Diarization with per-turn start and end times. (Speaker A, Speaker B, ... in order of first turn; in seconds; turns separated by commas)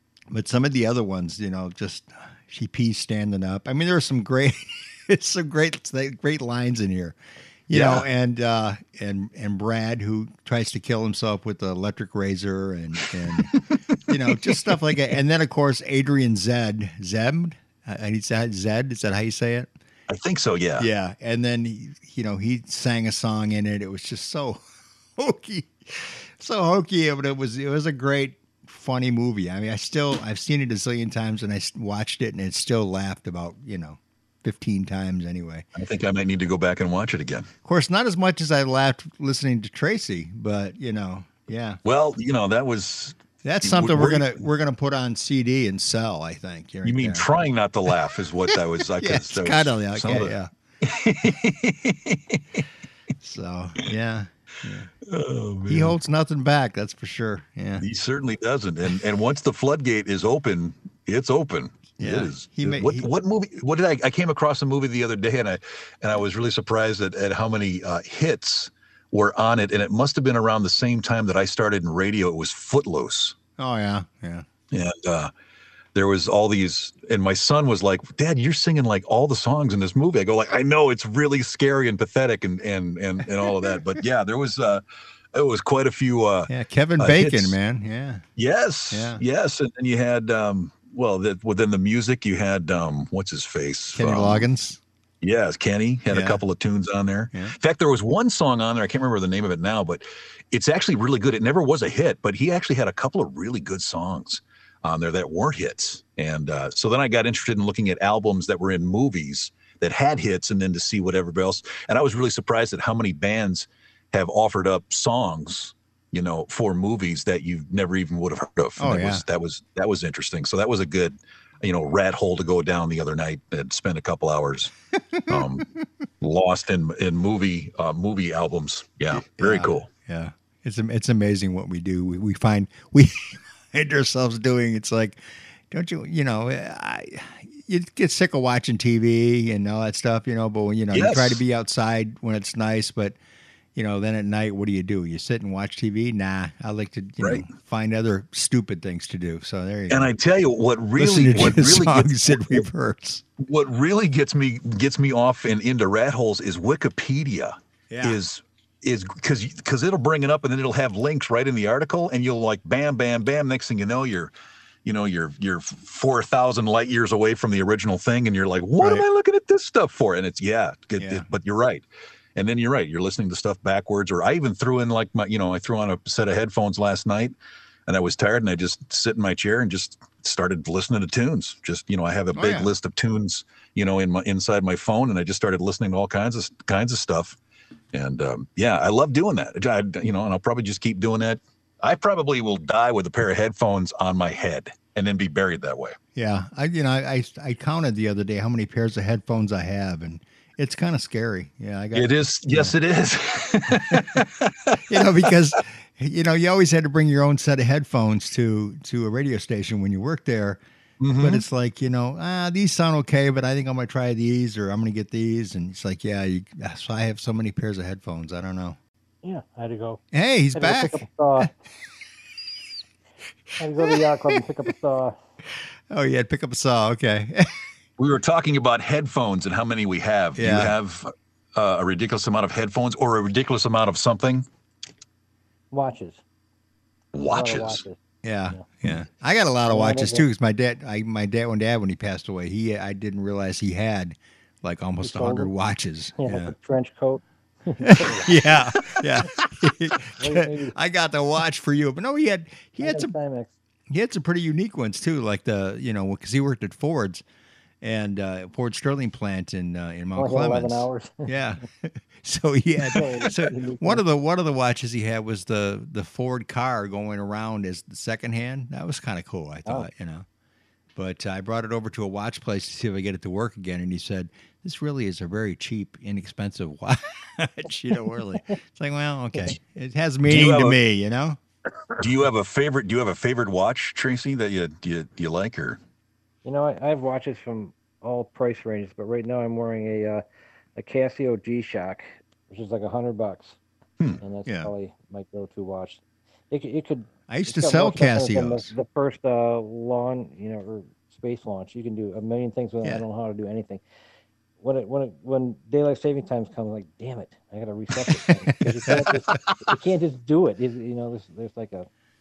Speaker A: 0.3-7.2, Speaker A: 7.7-19.7, Speaker B: 7.7-8.1, Speaker B: 14.3-14.6, Speaker B: 20.1-20.9, Speaker A: 20.8-24.6, Speaker A: 25.1-35.6, Speaker B: 35.7-37.5, Speaker A: 37.6-41.8, Speaker B: 41.8-44.4, Speaker A: 43.4-47.3, Speaker B: 46.8-52.6, Speaker A: 48.5-50.5, Speaker A: 53.2-54.9, Speaker B: 55.0-56.0, Speaker A: 55.7-57.8, Speaker B: 57.8-73.3, Speaker A: 62.0-63.1, Speaker A: 73.6-74.5, Speaker B: 74.7-75.3, Speaker B: 75.9-84.8, Speaker A: 83.4-83.8, Speaker B: 85.3-87.5, Speaker A: 86.5-88.2, Speaker B: 88.3-94.5, Speaker A: 88.9-89.2, Speaker A: 93.9-94.8, Speaker B: 95.2-124.7, Speaker A: 96.1-96.4, Speaker A: 118.8-119.2, Speaker A: 125.0-125.4, Speaker B: 125.3-125.7, Speaker B: 126.2-129.9, Speaker A: 129.1-143.2, Speaker B: 140.9-141.4, Speaker A: 143.7-150.1, Speaker B: 147.2-147.4, Speaker B: 149.9-152.6, Speaker A: 151.0-153.2, Speaker B: 153.4-164.3, Speaker A: 157.9-158.2, Speaker B: 164.8-177.3, Speaker A: 168.8-169.0, Speaker A: 171.0-171.3, Speaker B: 177.9-187.4, Speaker A: 182.3-182.7, Speaker B: 187.9-195.9, Speaker A: 196.1-202.7, Speaker B: 201.9-205.3, Speaker A: 203.9-204.2, Speaker A: 204.9-210.6, Speaker B: 211.0-211.4, Speaker A: 211.2-218.8, Speaker C: 219.2-220.0, Speaker A: 220.1-221.5, Speaker C: 220.6-221.5, Speaker C: 223.6-225.2, Speaker A: 225.9-227.6, Speaker B: 228.0-234.4, Speaker A: 230.3-230.8, Speaker C: 235.7-236.2, Speaker B: 237.1-237.8, Speaker C: 237.2-238.0, Speaker A: 238.2-246.5, Speaker C: 239.7-240.2, Speaker C: 245.0-245.5, Speaker C: 246.2-248.3, Speaker A: 247.8-253.1, Speaker C: 250.2-250.7, Speaker C: 252.8-253.5, Speaker A: 253.9-257.2, Speaker A: 257.8-270.2, Speaker C: 260.1-261.3, Speaker C: 262.9-264.0, Speaker A: 270.9-281.4, Speaker B: 280.2-280.8, Speaker B: 282.0-285.8, Speaker C: 286.4-290.2, Speaker C: 290.8-293.6, Speaker C: 294.2-303.8, Speaker A: 294.4-294.7, Speaker A: 297.3-298.7, Speaker C: 304.6-311.9, Speaker A: 308.9-309.2, Speaker B: 309.1-309.7